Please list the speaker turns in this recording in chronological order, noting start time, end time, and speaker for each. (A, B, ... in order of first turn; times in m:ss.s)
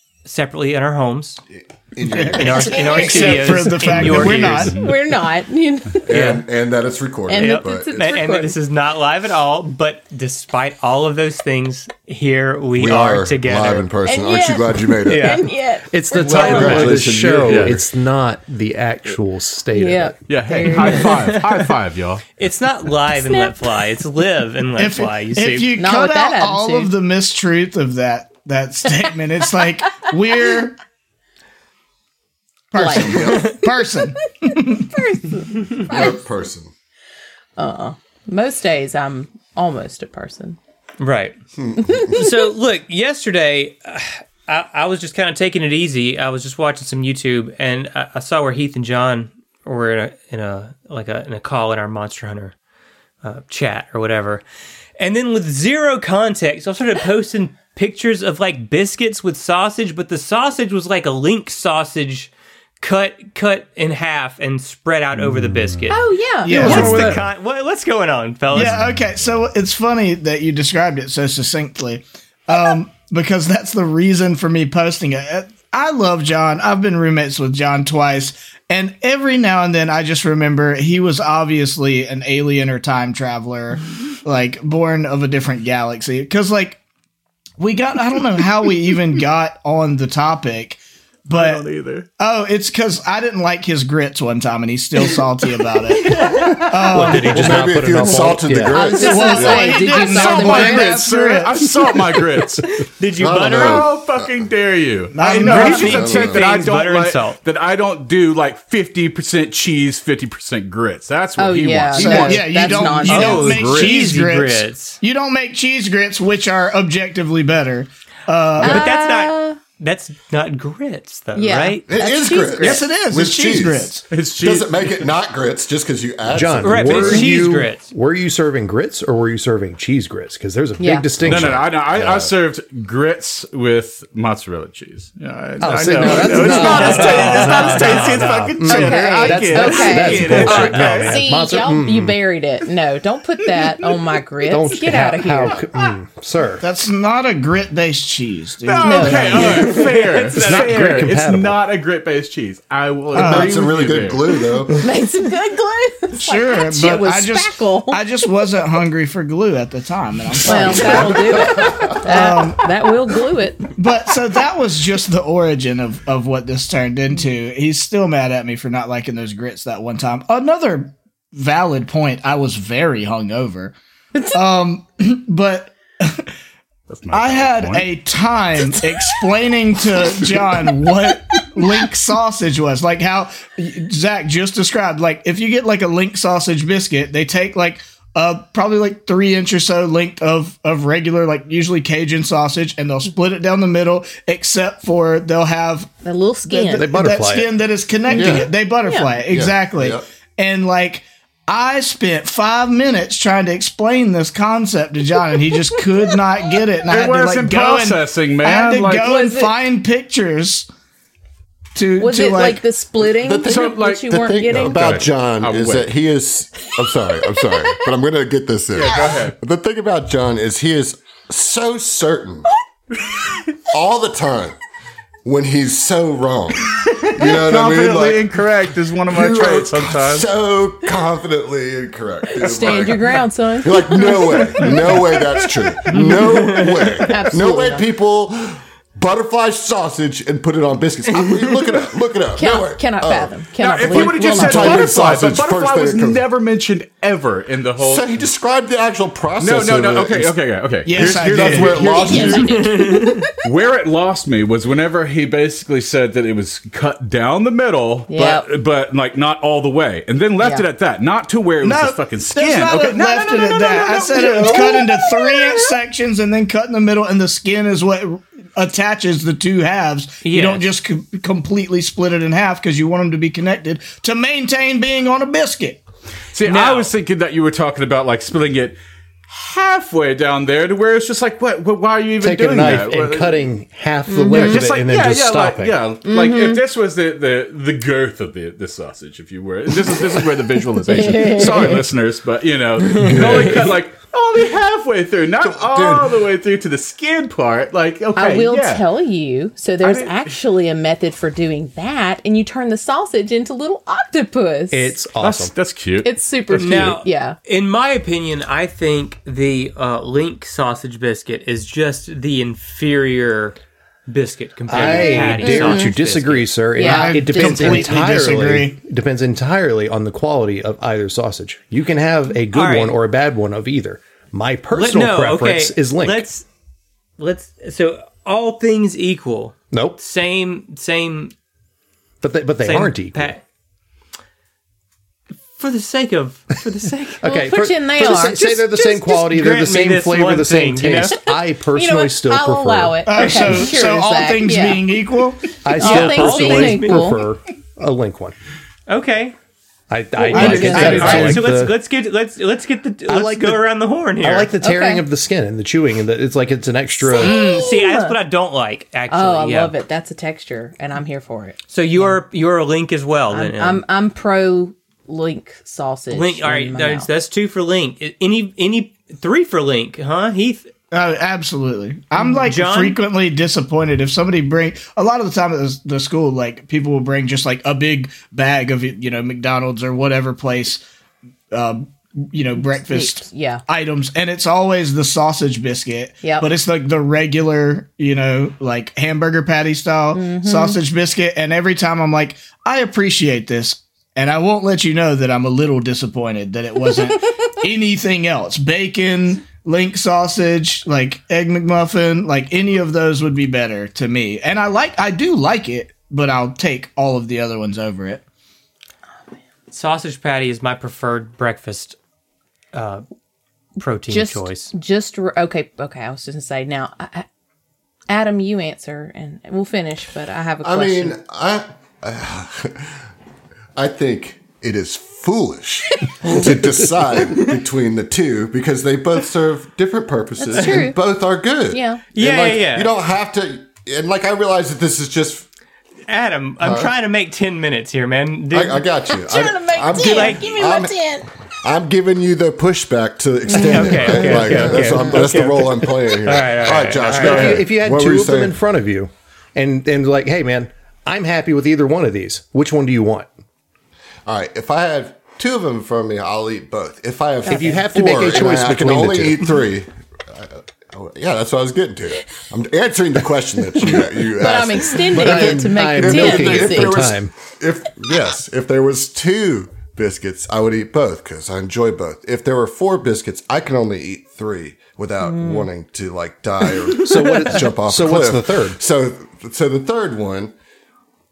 0:00.2-0:01.4 A
0:01.6-0:03.3 B
0:02.0-0:04.8 C
0:02.3-0:04.7 A
0:02.5-0:06.1 D
0:04.1-0:05.0 E
0:06.1-0:08.2 B
0:06.1-0:06.4 A
0:07.3-0:08.6 D
0:07.3-0:13.9 A
0:12.8-0:15.5 B
0:14.1-0:16.9 D
0:15.1-0:15.4 A
0:15.9-0:20.2 F
0:16.2-0:16.9 A
0:16.2-0:17.8 B
0:16.4-0:17.8 E
0:19.8-0:21.4 D
0:20.3-0:22.2 E
0:21.0-0:21.4 A
0:22.4-0:25.7 A
0:23.1-0:23.5 D
0:24.8-0:30.8 C
0:25.8-0:26.9 D
0:32.7-0:34.9 C
0:32.8-0:33.6 D
0:34.4-0:36.2 D
0:35.8-0:36.7 B
0:37.6-0:40.6 D
0:41.0-0:41.4 A
0:41.6-0:42.1 B
0:41.9-0:42.2 D
0:42.1-0:52.6 A
0:53.2-0:54.4 A
0:55.0-1:08.8 A
1:05.2-1:05.9 E
1:05.9-1:06.9 D
1:06.4-1:07.2 C
1:06.5-1:07.2 E
1:08.5-1:26.8 C
1:27.6-1:31.6 C
1:31.3-1:32.1 E
1:32.2-1:37.4 C
1:36.2-1:40.1 B
1:36.9-1:38.9 F
1:38.1-1:41.0 D
1:38.9-1:42.2 C
1:40.0-1:42.7 E
1:43.0-1:43.9 A
1:43.2-1:44.4 B
1:43.4-1:53.9 E
1:45.1-1:46.0 C
1:45.4-1:46.4 B
1:45.4-1:47.4 A
1:51.4-1:53.7 D
1:51.9-1:58.9 C
1:53.0-1:55.0 A
1:58.6-2:01.8 A
1:58.6-1:59.6 D
2:01.4-2:02.9 D
2:01.9-2:07.3 B
2:02.6-2:04.1 C
2:04.1-2:05.1 E
2:06.3-2:11.7 F
2:06.6-2:07.8 A
2:10.8-2:11.2 D
2:11.2-2:21.2 E
2:11.3-2:12.3 B
2:15.6-2:22.2 F
2:16.0-2:18.0 D
2:16.5-2:18.5 A
2:18.6-2:25.7 D
2:24.4-2:26.6 F
2:26.6-2:29.6 C
2:28.6-2:34.2 E
2:28.8-2:29.8 D
2:29.3-2:31.0 A
2:30.3-2:31.6 F
2:33.1-2:33.6 C
2:33.2-2:34.9 B
2:34.8-2:38.0 D
2:36.2-2:41.2 C
2:40.5-2:43.8 D
2:40.5-2:42.1 B
2:40.6-2:41.6 E
2:41.9-2:42.8 C
2:43.8-2:53.8 C
2:54.3-2:56.3 C
2:56.9-2:57.9 E
2:57.1-3:30.7 C
3:16.0-3:16.9 D
3:16.7-3:17.5 F
3:18.1-3:18.5 B
3:18.8-3:19.1 D
3:19.3-3:20.0 B
3:26.9-3:29.1 E
3:29.0-3:29.5 D
3:31.8-3:32.7 C
3:32.0-3:35.1 D
3:33.2-3:42.5 B
3:33.5-3:35.9 E
3:38.7-3:39.3 E
3:43.7-3:44.6 B
3:45.2-3:48.3 B
3:46.8-3:50.3 E
3:49.1-4:06.2 B
3:52.3-3:55.0 D
3:55.9-3:57.2 A
3:56.1-3:57.9 D
4:02.4-4:05.0 D
4:03.6-4:08.3 E
4:07.8-4:10.4 B
4:09.4-4:12.5 E
4:10.8-4:12.4 C
4:11.0-4:12.4 B
4:11.4-4:13.4 D
4:12.1-4:13.3 A
4:13.4-4:24.8 E
4:18.1-4:18.5 D
4:21.6-4:35.8 C
4:23.4-4:25.6 D
4:30.2-4:30.7 A
4:36.3-4:38.8 E
4:36.4-4:36.9 A
4:39.3-4:43.4 E
4:42.2-4:45.8 F
4:44.1-4:44.6 D
4:44.3-4:58.8 E
4:46.0-4:46.6 D
4:50.9-4:51.9 D
4:52.9-4:53.7 B
4:55.4-4:56.1 B
4:58.2-5:05.0 D
4:59.8-5:00.4 E
5:04.7-5:05.5 F
5:05.2-5:07.0 E
5:06.0-5:07.4 D
5:06.6-5:13.6 A
5:14.1-5:16.5 A
5:14.7-5:26.2 F
5:14.8-5:16.0 D
5:16.8-5:18.0 D
5:16.8-5:18.8 C
5:22.5-5:23.0 A
5:24.7-5:26.5 A
5:27.2-5:31.4 A
5:29.7-5:30.0 F
5:32.2-5:33.3 F
5:32.6-5:33.4 A
5:35.6-5:37.3 A
5:37.2-5:43.7 F
5:37.2-5:38.8 D
5:38.7-5:41.2 A
5:40.9-5:44.9 D
5:43.1-5:45.6 C
5:45.6-5:48.4 F
5:45.7-5:47.2 D
5:45.8-5:47.1 A
5:48.9-5:49.4 A
5:49.9-5:51.8 F
5:50.2-5:51.5 D
5:50.3-5:51.3 C
5:50.3-5:54.5 A
5:50.7-5:51.3 E
5:53.1-5:53.7 F
5:54.2-5:57.4 F
5:54.6-5:55.0 D
5:57.1-5:58.2 D
5:57.1-5:59.8 A
5:59.1-6:02.2 D
6:01.7-6:03.8 A
6:03.3-6:07.1 D
6:06.1-6:10.7 A
6:10.9-6:20.8 C
6:12.5-6:13.0 A
6:21.5-6:48.2 C
6:22.6-6:23.6 D
6:26.2-6:26.5 D
6:30.1-6:30.8 D
6:49.7-6:52.0 A
6:52.7-6:53.0 A
6:53.8-6:54.7 A
6:54.1-6:57.3 D
6:58.1-7:01.2 D
7:00.6-7:03.0 B
7:03.8-7:15.5 B
7:10.4-7:11.0 D
7:11.7-7:12.0 D
7:12.1-7:12.9 A
7:16.1-7:18.9 A
7:16.6-7:16.9 B
7:18.5-7:21.0 B
7:19.2-7:21.3 D
7:20.0-7:20.4 A
7:21.6-7:28.6 B
7:23.5-7:24.9 D
7:23.6-7:27.6 A
7:27.1-7:33.3 F
7:34.3-8:00.5 B
7:37.5-7:39.5 F
7:37.5-7:37.8 D
7:44.4-7:47.1 D
7:45.1-7:47.3 F
7:55.2-7:55.7 D
7:56.9-7:58.8 F